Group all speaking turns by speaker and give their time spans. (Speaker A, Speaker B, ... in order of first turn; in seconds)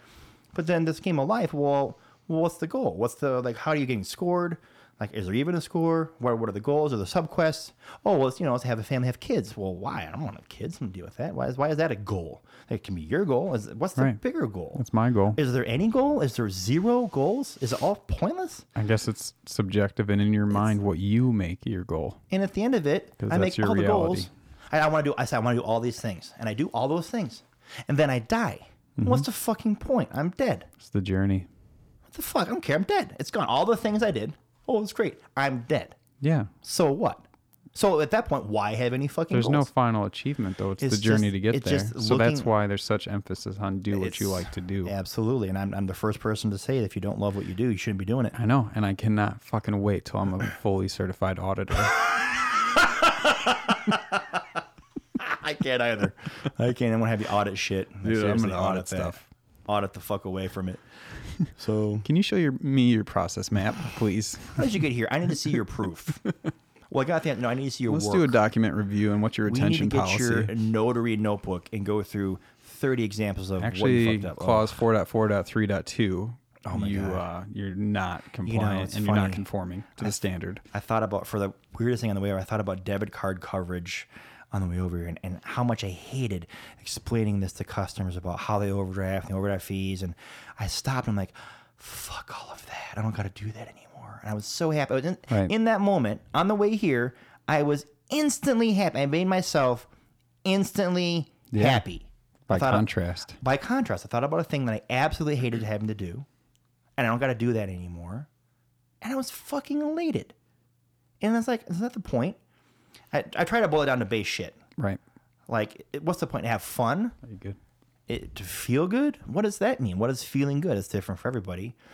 Speaker A: 0.5-14.8, 15.3-18.7, 22.3-30.7, 32.1-36.0, 36.6-39.7, 40.8-42.5, 43.9-48.4, 52.2-54.4, 55.2-60.8, 61.5-62.1, 64.6-66.2, 66.9-68.4, 69.5-74.8, 76.7-77.2, 78.4-79.4, 80.7-99.9, 100.5-106.3, 107.0-108.3, 109.0-110.3, 111.2-112.4, 113.1-114.6, 115.5-117.2, 118.1-121.8
Speaker B: 14.8-15.4, 18.8-22.2, 23.2-24.3, 29.0-29.3, 30.8-31.5, 36.2-36.5, 39.3-44.9, 48.3-52.0, 58.0-59.3, 62.0-64.7, 67.9-70.5, 73.6-80.6, 101.5-101.8, 102.5-103.4, 117.2-117.6